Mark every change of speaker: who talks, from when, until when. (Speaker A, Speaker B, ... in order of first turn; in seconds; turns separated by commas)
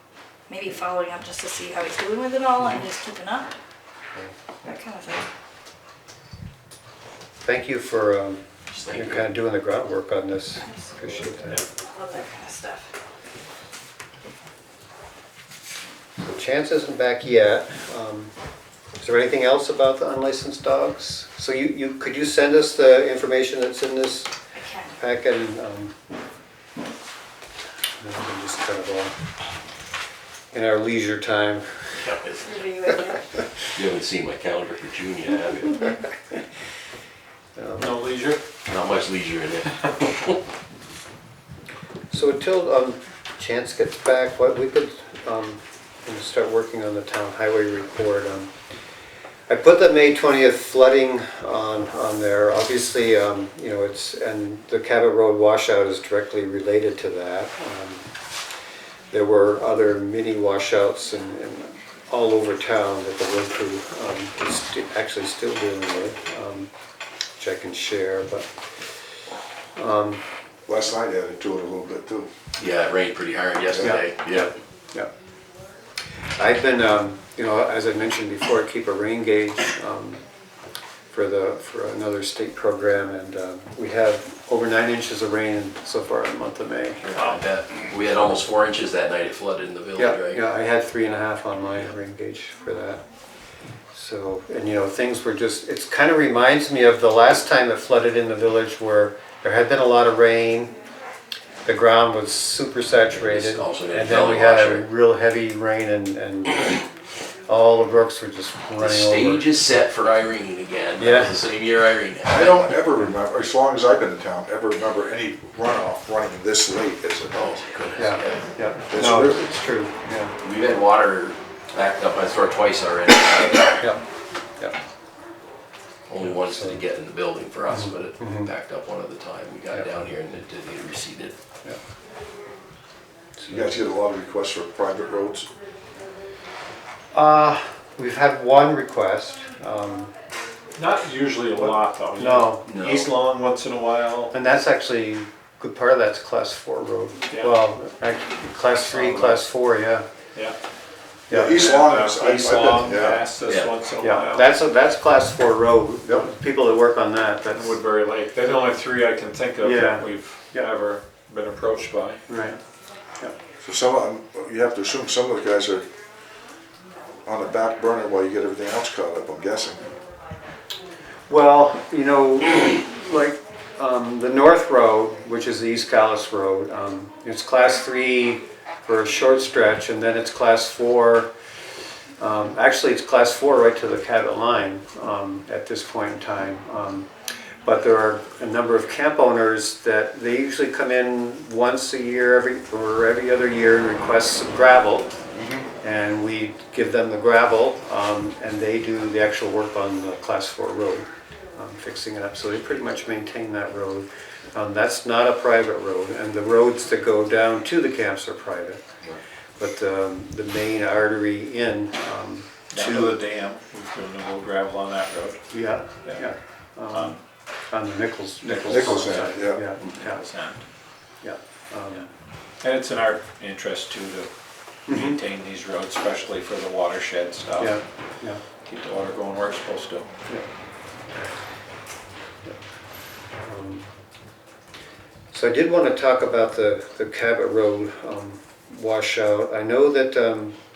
Speaker A: 0.5-3.5, Speaker B: 2.6-2.9, Speaker A: 4.6-5.3, Speaker B: 7.4-11.6, Speaker C: 8.7-9.2, Speaker A: 10.6-10.9, Speaker A: 11.8-12.9, Speaker B: 16.3-18.3, Speaker B: 19.0-24.3, Speaker A: 24.5-24.9, Speaker B: 25.0-25.9, Speaker B: 28.0-29.1, Speaker B: 30.5-31.7, Speaker C: 32.0-32.5, Speaker A: 32.4-33.2, Speaker C: 33.7-35.9, Speaker B: 37.5-38.0, Speaker D: 37.8-38.4, Speaker C: 38.7-40.3, Speaker B: 42.1-48.5, Speaker B: 49.5-58.0, Speaker B: 59.1-66.7, Speaker B: 67.4-68.5, Speaker B: 69.8-70.2, Speaker E: 70.7-72.3, Speaker C: 72.6-74.5, Speaker E: 73.7-74.0, Speaker B: 73.8-75.1, Speaker B: 76.4-80.2, Speaker B: 81.1-87.0, Speaker C: 87.0-90.4, Speaker B: 90.0-93.0, Speaker B: 93.9-100.7, Speaker B: 101.6-106.9, Speaker C: 103.1-104.9, Speaker B: 107.5-109.5, Speaker C: 108.8-112.8, Speaker B: 111.0-111.4, Speaker E: 112.2-117.6, Speaker C: 117.3-118.5, Speaker B: 118.0-120.4, Speaker E: 118.9-119.6, Speaker C: 120.4-123.8, Speaker C: 126.1-131.3, Speaker B: 126.2-126.8, Speaker B: 127.7-128.5, Speaker B: 133.4-133.8, Speaker E: 133.5-135.5, Speaker B: 137.1-140.1, Speaker D: 140.8-144.3, Speaker B: 141.6-142.7, Speaker C: 142.7-143.1, Speaker B: 144.3-150.0, Speaker D: 148.7-149.4, Speaker B: 151.3-151.6, Speaker E: 151.3-153.2, Speaker D: 151.4-154.5, Speaker C: 153.5-153.7, Speaker B: 154.0-157.8, Speaker D: 157.5-162.2, Speaker B: 159.6-160.7, Speaker B: 162.3-162.6, Speaker E: 163.6-165.8, Speaker E: 167.2-169.8, Speaker B: 171.3-181.3, Speaker B: 182.2-187.1, Speaker B: 187.6-195.1, Speaker E: 195.3-195.7, Speaker B: 195.8-208.8, Speaker B: 209.6-213.2, Speaker D: 212.7-215.4, Speaker B: 215.5-217.2, Speaker D: 216.9-217.2, Speaker B: 217.7-220.2, Speaker D: 218.5-220.6, Speaker E: 218.7-219.6, Speaker B: 221.2-222.1, Speaker D: 222.6-224.3, Speaker B: 224.9-225.2, Speaker D: 224.9-227.7, Speaker B: 227.6-228.4, Speaker D: 228.7-230.1, Speaker B: 233.4-233.8, Speaker B: 235.3-240.5